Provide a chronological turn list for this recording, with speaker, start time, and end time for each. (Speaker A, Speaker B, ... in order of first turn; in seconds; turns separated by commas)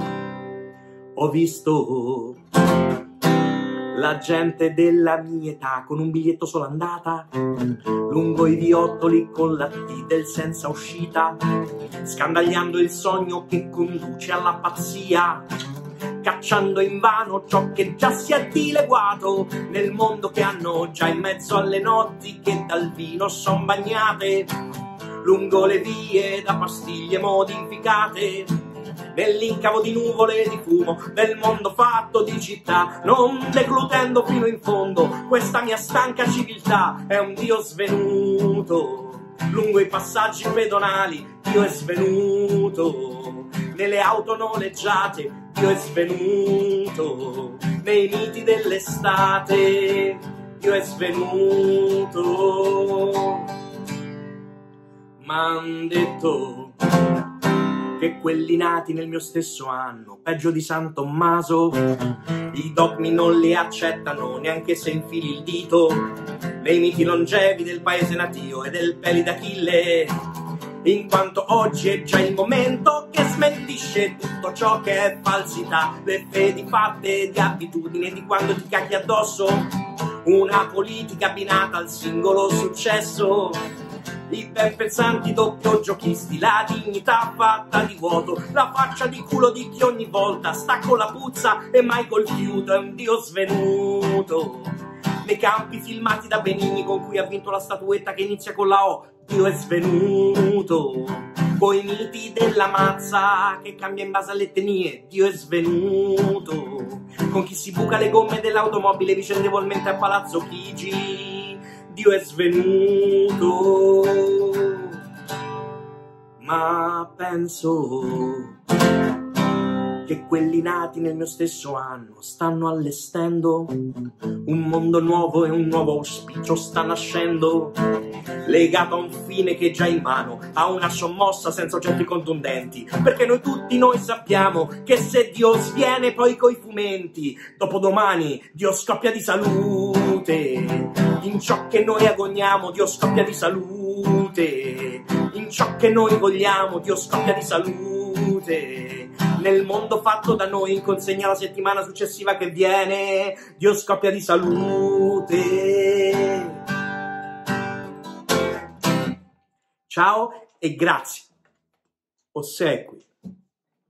Speaker A: 1.1-2.4, Speaker A: 3.9-11.4, Speaker A: 12.0-15.4, Speaker A: 16.2-24.5, Speaker A: 25.2-28.5, Speaker A: 29.1-53.5, Speaker A: 55.2-57.2, Speaker A: 57.9-70.1, Speaker A: 70.8-79.7, Speaker A: 80.2-83.6, Speaker A: 84.3-115.0, Speaker A: 116.4-118.5, Speaker A: 120.0-127.8, Speaker A: 128.4-156.6, Speaker A: 159.9-161.3, Speaker A: 162.3-163.0